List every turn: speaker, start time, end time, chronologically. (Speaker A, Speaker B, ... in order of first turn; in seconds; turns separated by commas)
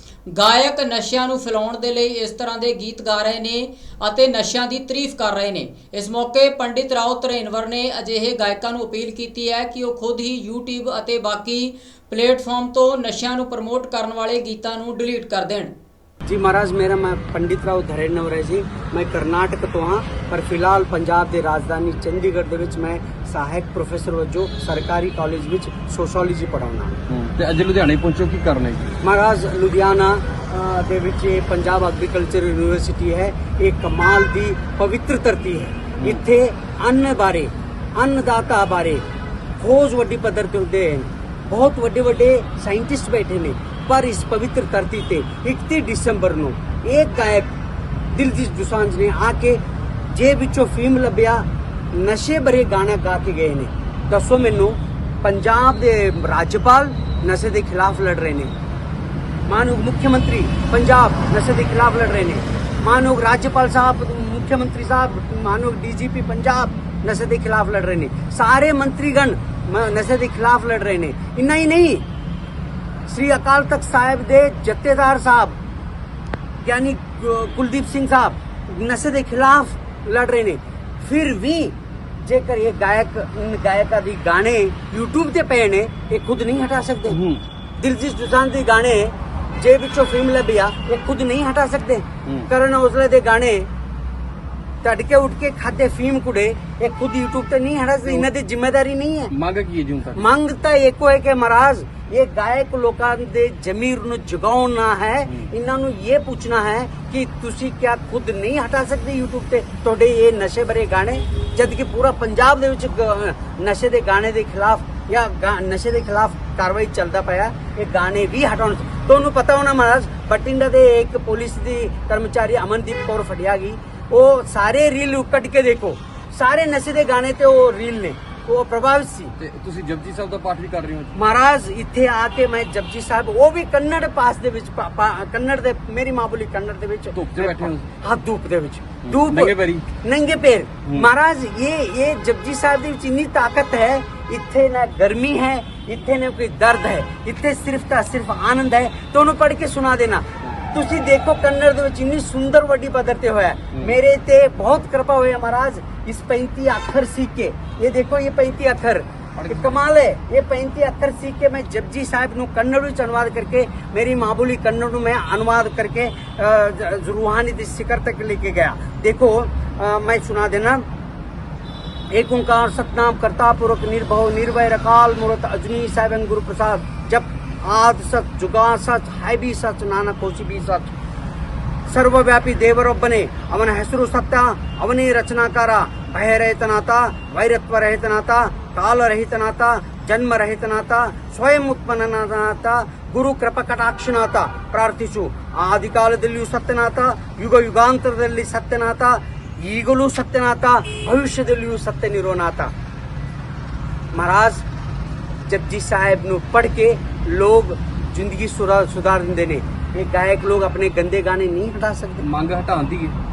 Speaker A: 0.3-15.7, Speaker B: 16.2-27.0, Speaker C: 27.1-28.9, Speaker B: 29.0-39.0, Speaker C: 36.0-36.2, Speaker B: 39.6-47.5, Speaker B: 48.1-58.5, Speaker B: 59.5-72.0, Speaker B: 73.1-75.6, Speaker B: 76.6-87.2, Speaker C: 87.1-87.4, Speaker B: 87.8-93.7, Speaker C: 92.2-92.5, Speaker B: 94.8-99.3, Speaker C: 99.3-100.3, Speaker B: 100.2-129.3, Speaker C: 129.4-131.2, Speaker B: 131.1-170.8, Speaker C: 137.1-137.9, Speaker C: 139.0-139.9, Speaker C: 140.8-141.1, Speaker C: 153.7-154.0, Speaker C: 159.4-159.8, Speaker B: 172.1-180.9, Speaker B: 181.9-202.7, Speaker B: 204.1-204.6, Speaker B: 205.5-212.2, Speaker C: 212.2-213.1